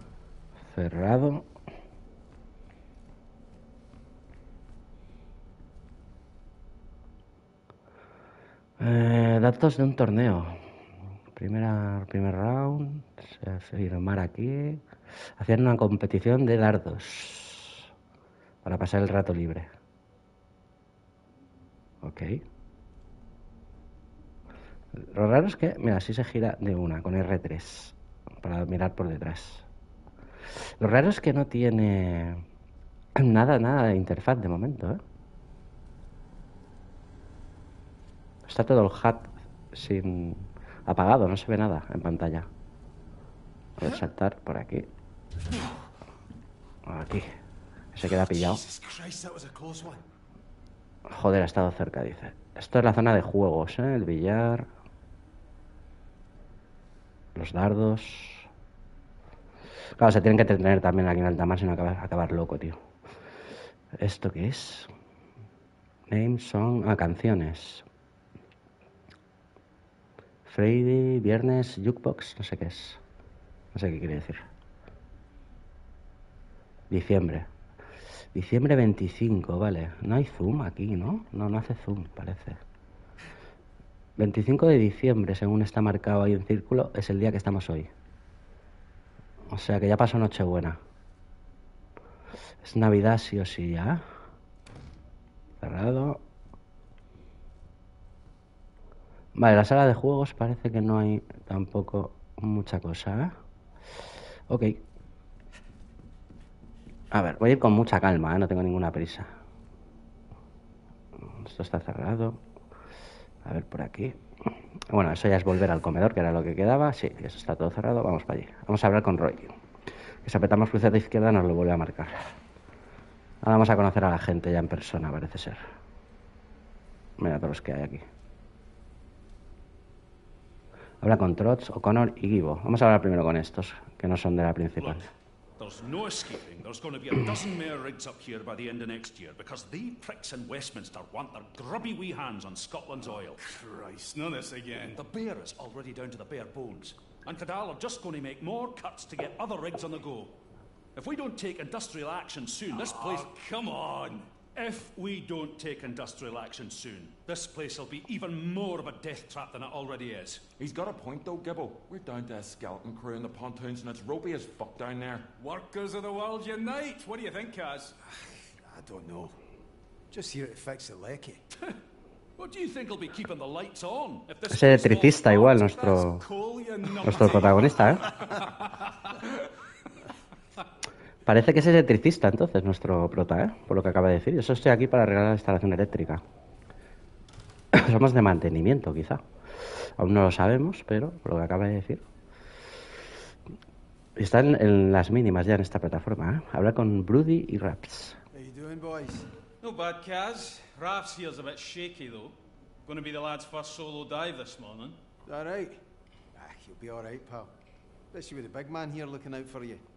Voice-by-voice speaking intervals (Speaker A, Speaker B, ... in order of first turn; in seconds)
Speaker A: 0.7-1.4, 8.8-10.6, 11.3-14.8, 15.4-17.9, 18.6-19.7, 22.0-22.4, 25.0-29.6, 30.8-32.4, 33.1-35.0, 38.5-42.5, 43.8-44.9, 46.9-47.3, 47.9-48.6, 51.1-54.7, 57.4-58.5, 60.0-62.8, 64.0-64.9, 66.1-67.8, 70.5-73.0, 73.7-74.4, 76.9-77.5, 78.3-82.6, 84.2-87.9, 89.5-90.8, 92.6-94.0, 95.6-96.2, 99.3-103.3, 104.5-104.8, 107.1-109.3, 111.4-112.4, 113.4-114.2, 114.9-119.5, 120.2-122.1, 123.4-125.6, 127.2-128.0, 131.0-135.1, 174.5-176.2, 177.0-178.0, 181.2-186.2, 187.7-189.2, 190.0-192.0, 194.2-198.2
Speaker B: 48.0-50.0, 168.7-169.3, 170.1-171.4, 198.3-199.3, 205.2-205.8, 206.3-207.5, 208.1-209.8
Speaker C: 135.6-143.4, 144.8-150.3, 150.9-153.4, 154.3-160.5, 172.4-174.8
Speaker D: 143.6-145.0, 152.8-154.3, 165.4-167.9, 174.4-178.7, 199.6-205.0
Speaker E: 160.6-165.3